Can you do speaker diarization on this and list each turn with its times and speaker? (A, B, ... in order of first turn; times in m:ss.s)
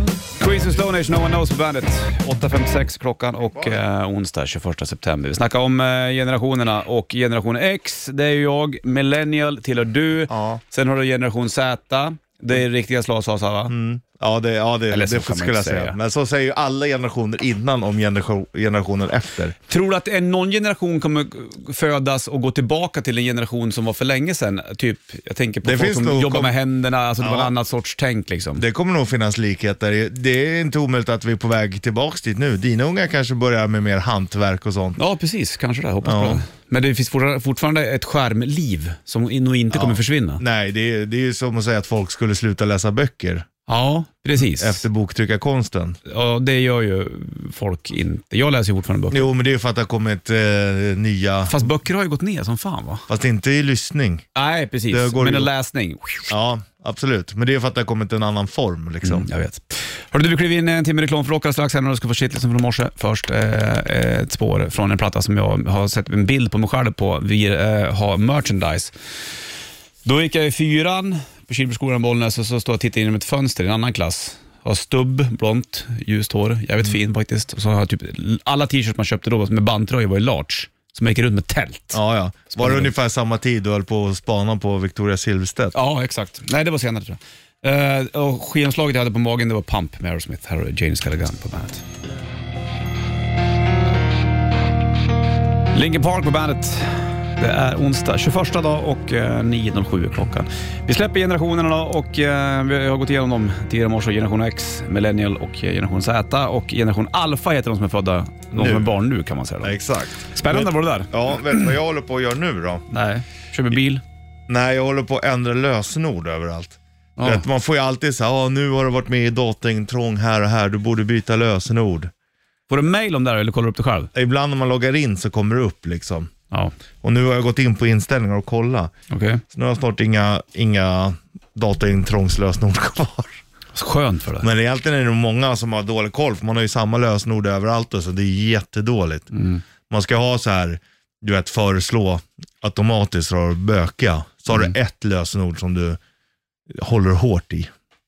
0:00.3-0:13.7 A
0:10.3-0:10.6 B
0:13.7-0:19.6 B
0:14.9-0:16.0 A
0:19.7-0:28.6 A
0:25.6-0:26.5 B
0:27.2-0:27.5 B
0:28.6-0:35.0 B
0:35.0-0:40.4 A
0:36.0-0:36.4 B
0:39.7-0:43.5 B
0:43.7-0:44.8 A
0:44.4-0:46.0 B
0:46.1-0:49.3 A
0:49.1-0:51.7 B
0:51.5-0:53.1 A
0:53.1-0:54.3 B
0:54.4-0:56.3 A
0:54.9-0:55.5 B
0:56.3-0:59.3 B
0:59.0-1:08.9 A
1:10.0-1:22.0 A
1:21.9-1:25.8 B
1:22.5-1:22.9 A
1:25.7-1:31.8 A
1:35.7-1:49.8 A
1:48.5-1:48.9 B
1:49.6-1:52.9 B
1:50.3-1:51.1 A
1:52.9-1:54.0 A
1:54.5-2:02.1 B
1:57.2-1:57.5 A
2:02.7-2:04.1 A
2:04.1-2:06.3 B
2:07.0-2:08.9 B
2:09.1-2:09.4 A
2:09.5-2:13.4 B
2:13.7-2:14.5 A
2:14.4-2:19.3 B
2:19.3-2:19.6 A
2:19.9-2:26.0 B
2:26.7-2:27.7 B